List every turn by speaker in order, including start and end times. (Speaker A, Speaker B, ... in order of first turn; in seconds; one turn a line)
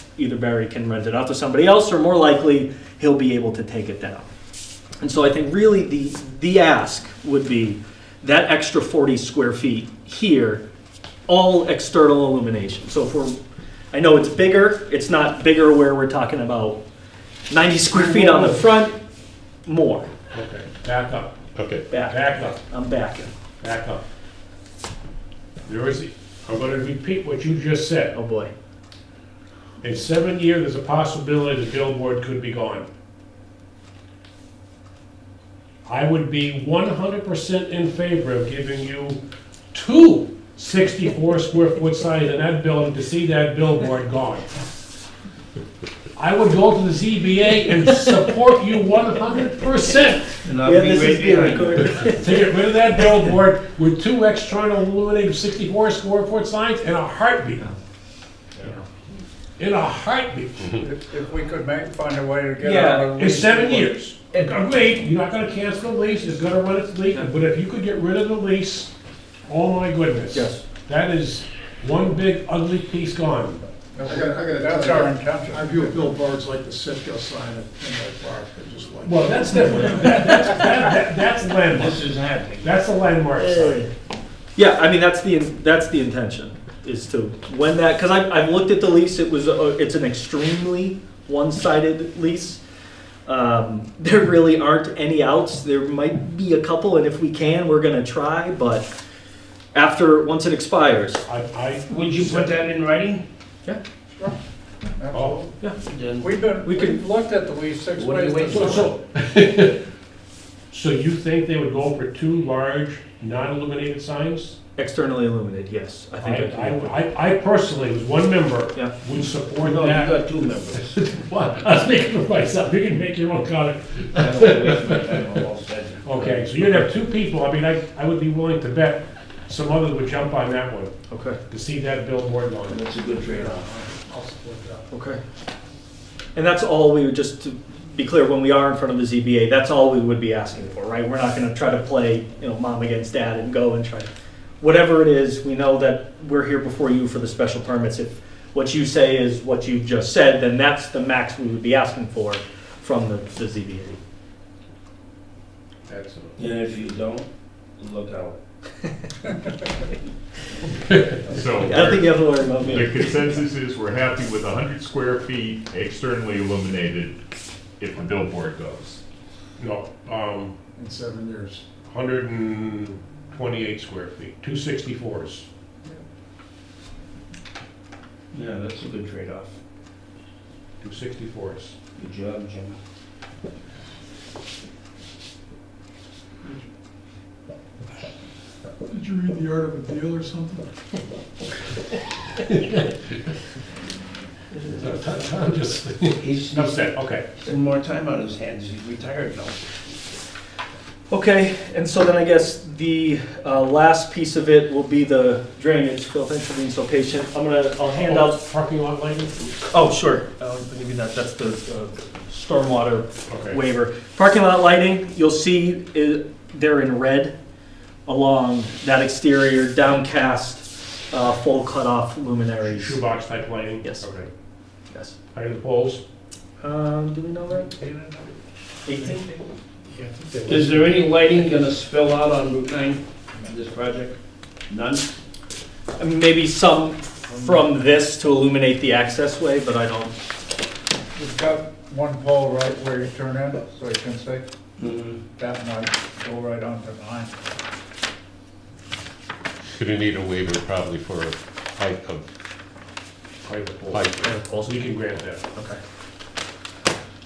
Speaker A: 0.2-4.3
Speaker A: 5.0-10.6
Speaker A: 11.3-13.4
Speaker A: 13.9-16.8
Speaker A: 17.5-19.0
Speaker B: 17.9-18.7
Speaker A: 19.7-20.1
Speaker B: 20.3-21.4
Speaker C: 21.6-21.9
Speaker A: 21.9-23.3
Speaker B: 21.9-22.6
Speaker B: 23.6-24.0
Speaker B: 25.7-28.1
Speaker A: 28.1-28.5
Speaker B: 29.8-32.9
Speaker B: 35.9-39.2
Speaker B: 39.7-44.5
Speaker B: 46.2-50.4
Speaker D: 50.4-52.1
Speaker A: 50.6-52.3
Speaker B: 52.0-57.7
Speaker A: 58.6-58.9
Speaker B: 59.6-60.8
Speaker E: 60.7-63.9
Speaker A: 62.6-63.2
Speaker B: 63.1-68.9
Speaker A: 64.3-64.6
Speaker B: 69.5-73.7
Speaker A: 70.3-70.6
Speaker E: 74.0-76.1
Speaker F: 74.0-80.5
Speaker B: 79.0-82.1
Speaker D: 81.7-82.8
Speaker B: 82.6-83.9
Speaker A: 83.4-83.9
Speaker A: 84.6-92.6
Speaker A: 93.3-98.9
Speaker A: 99.7-101.2
Speaker B: 101.2-102.5
Speaker D: 101.9-103.2
Speaker E: 105.0-105.5
Speaker B: 105.1-105.4
Speaker D: 105.8-106.3
Speaker E: 106.2-108.8
Speaker A: 106.6-107.0
Speaker D: 108.0-109.0
Speaker B: 108.5-109.8
Speaker B: 110.7-114.6
Speaker A: 114.8-117.0
Speaker B: 116.2-120.2
Speaker D: 119.6-121.0
Speaker B: 120.8-125.4
Speaker D: 124.2-126.8
Speaker B: 126.0-130.9
Speaker A: 131.1-131.4
Speaker B: 131.5-132.8
Speaker D: 132.7-133.7
Speaker F: 133.3-134.9
Speaker A: 134.9-135.2
Speaker A: 136.3-154.0
Speaker B: 155.9-156.4
Speaker D: 156.4-158.4
Speaker G: 161.3-167.2
Speaker A: 161.6-163.2
Speaker G: 167.8-169.0
Speaker B: 169.6-170.6
Speaker F: 170.8-171.7
Speaker B: 171.8-175.5
Speaker D: 178.3-179.6
Speaker B: 180.8-181.8
Speaker D: 182.0-182.8
Speaker F: 188.9-190.7
Speaker B: 192.5-192.8
Speaker B: 194.7-197.3
Speaker D: 196.2-199.8
Speaker A: 201.1-208.4
Speaker B: 208.0-209.5
Speaker A: 209.7-217.3
Speaker B: 213.3-213.6
Speaker A: 218.1-223.0
Speaker B: 222.6-224.3
Speaker B: 225.3-226.0
Speaker A: 226.6-227.7
Speaker E: 227.5-228.4
Speaker A: 228.9-229.3
Speaker E: 228.9-230.4
Speaker B: 230.3-231.0
Speaker D: 230.5-234.2
Speaker D: 234.7-235.1
Speaker A: 236.0-240.2
Speaker E: 241.2-244.5
Speaker D: 244.8-245.2
Speaker E: 245.4-247.3
Speaker C: 249.8-252.2
Speaker B: 253.4-255.4
Speaker C: 253.9-254.3
Speaker A: 254.2-254.9
Speaker A: 255.5-255.8